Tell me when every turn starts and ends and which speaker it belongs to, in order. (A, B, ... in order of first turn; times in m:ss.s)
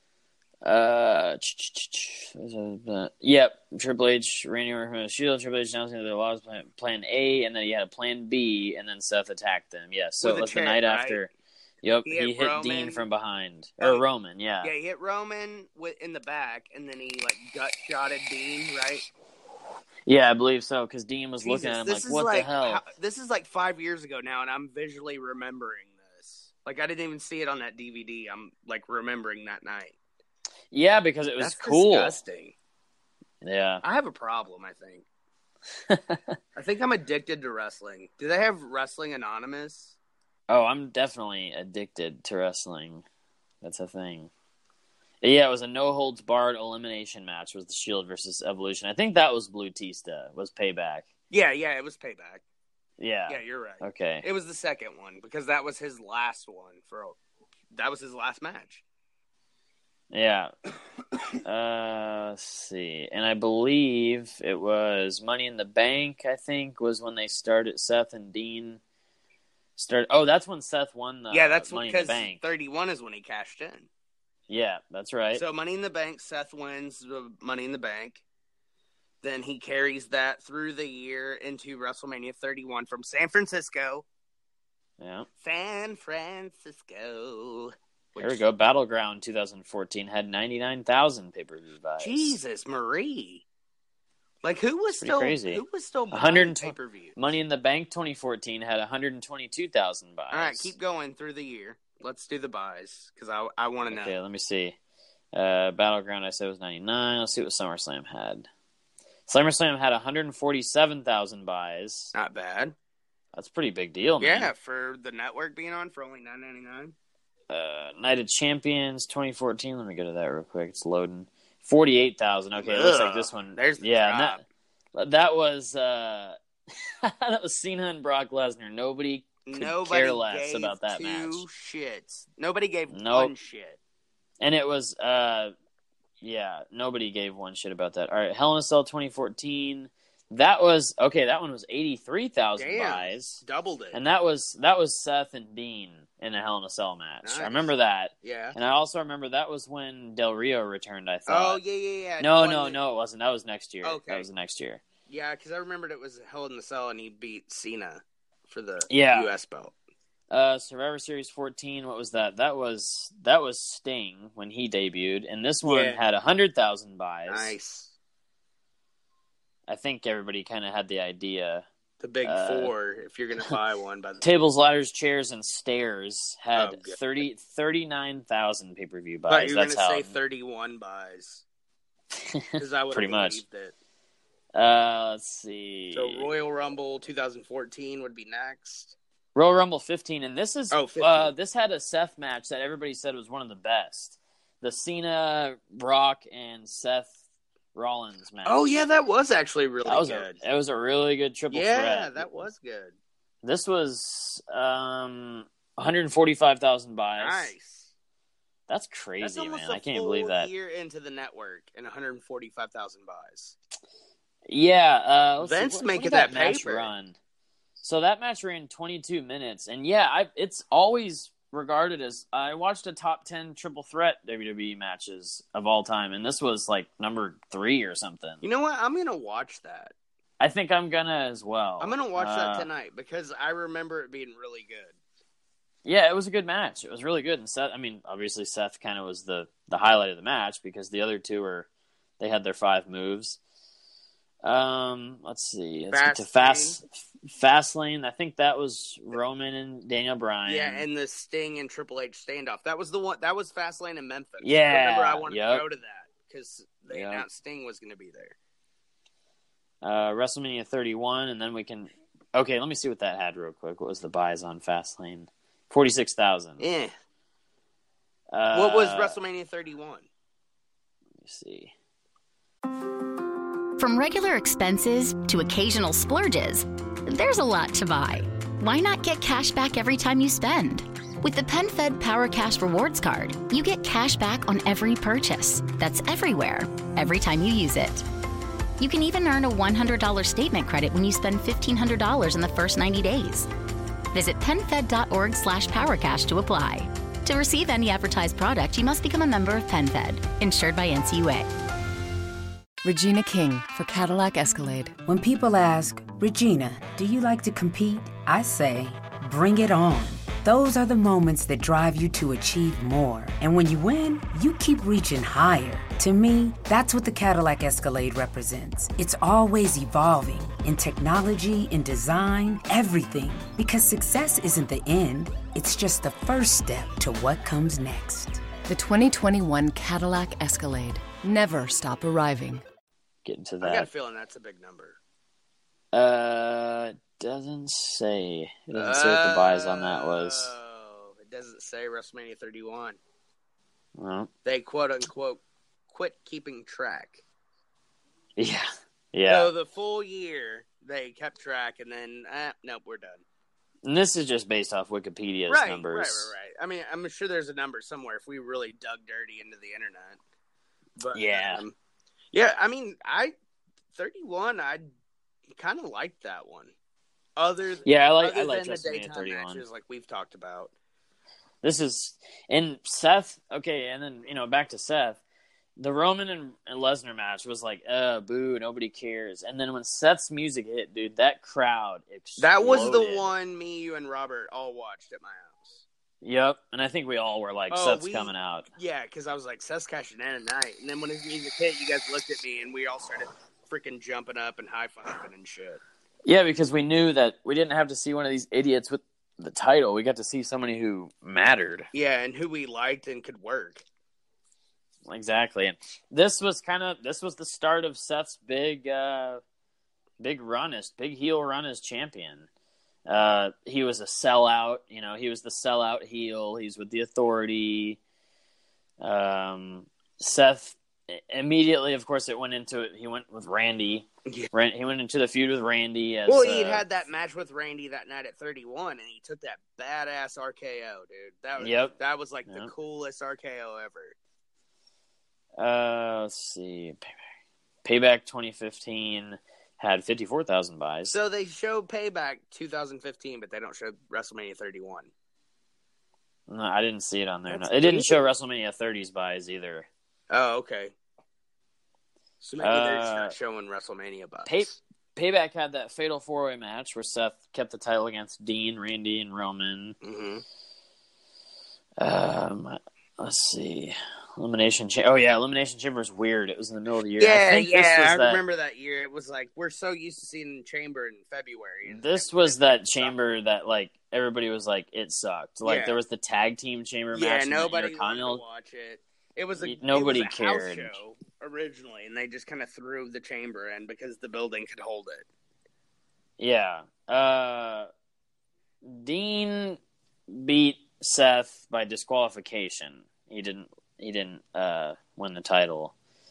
0:00.6-0:11.3 A
0:10.2-0:11.2 B
0:11.8-0:14.7 A
0:12.1-0:13.0 B
0:14.6-0:19.1 B
0:20.1-0:22.8 A
0:21.4-0:30.0 B
0:30.7-0:32.2 A
0:31.4-0:32.6 B
0:33.4-0:33.8 A
0:33.8-0:35.0 B
0:35.9-0:36.4 A
0:36.6-0:40.0 B
0:40.5-0:43.0 A
0:43.6-0:44.3 A
0:45.2-0:51.1 A
0:51.3-0:52.4 B
0:53.0-0:54.3 A
0:53.3-0:57.2 B
0:57.7-0:58.8 B
1:00.1-1:00.5 A
1:01.4-1:08.8 A
1:09.8-1:12.4 A
1:11.3-1:13.9 B
1:14.5-1:15.4 A
1:15.3-1:18.2 B
1:19.2-1:24.1 B
1:25.0-1:25.3 A
1:25.4-1:28.4 B
1:28.2-1:32.4 A
1:32.0-1:33.4 B
1:34.4-1:37.2 B
1:35.0-1:40.7 A
1:40.3-1:44.1 B
1:43.9-1:44.8 A
1:45.3-1:48.5 A
1:49.3-1:52.1 A
1:52.1-1:52.8 B
1:53.3-1:54.5 A
1:54.2-1:57.0 B
1:57.5-2:04.4 A
2:02.6-2:04.4 B
2:05.0-2:11.4 A
2:09.5-2:13.8 B
2:12.9-2:13.3 A
2:14.4-2:15.5 A
2:16.2-2:23.4 A
2:22.6-2:24.0 B
2:23.9-2:31.6 A
2:27.2-2:27.7 B
2:28.2-2:28.6 B
2:31.3-2:32.8 B
2:32.2-2:34.8 A
2:33.8-2:34.3 B
2:35.1-2:39.7 B
2:38.9-2:39.3 A
2:40.3-2:47.6 A
2:45.7-2:46.0 B
2:47.3-2:47.9 B
2:49.7-2:51.6 A
2:52.0-2:54.2 B
2:52.2-2:52.7 A
2:54.2-3:00.1 A
2:56.6-2:57.0 B
2:59.3-3:01.4 B
3:02.3-3:03.4 A
3:02.6-3:03.7 B
3:04.6-3:06.3 A
3:05.9-3:09.0 B
3:09.4-3:17.1 A
3:10.7-3:11.3 B
3:17.8-3:18.8 A
3:18.4-3:20.4 B
3:19.8-3:22.5 A
3:21.5-3:23.0 B
3:23.4-3:27.5 A
3:27.2-3:27.9 B
3:28.7-3:30.5 A
3:29.2-3:33.6 B
3:34.5-3:37.2 A
3:35.4-3:36.9 B
3:37.8-3:48.4 A
3:48.4-3:49.9 B
3:50.4-3:52.7 A
3:51.8-3:55.0 B
3:55.8-4:01.7 A
4:02.2-4:03.4 A
4:04.4-4:10.9 A
4:05.9-4:06.8 B
4:10.5-4:18.4 B
4:14.4-4:15.6 A
4:16.9-4:17.3 A
4:19.8-4:26.7 A
4:26.6-4:26.9 B
4:28.3-4:29.2 A
4:28.5-4:30.1 B
4:31.2-4:31.7 A
4:33.8-4:48.0 C
4:48.8-4:53.5 C
4:54.1-5:01.5 C
5:02.8-5:05.0 D
5:05.1-5:28.4 E
5:28.7-5:32.6 D
5:33.2-5:33.9 A
5:33.6-5:35.0 B
5:35.9-5:40.5 A
5:38.7-5:43.0 B
5:44.0-5:44.3 A
5:44.4-5:47.2 B
5:48.4-5:49.5 A
5:49.3-5:53.2 B
5:53.8-5:56.3 A
5:55.5-6:00.2 B
6:01.0-6:01.7 B
6:01.1-6:01.6 A
6:02.3-6:03.4 B
6:03.9-6:04.9 B
6:05.6-6:06.7 B
6:07.4-6:10.7 B
6:07.8-6:09.6 A
6:11.6-6:15.2 A
6:15.8-6:23.3 A
6:22.4-6:25.8 B
6:26.2-6:28.7 A
6:27.7-6:35.8 B
6:36.2-6:41.9 A
6:41.9-6:43.8 B
6:45.1-6:49.4 A
6:50.2-6:52.5 A
6:53.1-6:58.0 A
6:59.0-7:06.8 A
7:06.3-7:14.2 B
7:11.6-7:12.0 A
7:12.5-7:12.7 A
7:15.6-7:17.0 A
7:17.8-7:21.2 A
7:21.1-7:25.1 B
7:26.5-7:29.9 A
7:27.5-7:28.2 B
7:30.3-7:30.9 B
7:32.4-7:34.7 B
7:32.6-7:33.3 A
7:34.5-7:40.0 A
7:40.0-7:40.4 B
7:42.0-7:48.4 A
7:47.2-7:53.2 B
7:51.8-7:58.4 A
7:55.7-7:56.0 B
7:57.1-8:05.3 B
7:59.6-8:01.0 A
8:06.4-8:07.9 A
8:08.8-8:15.9 A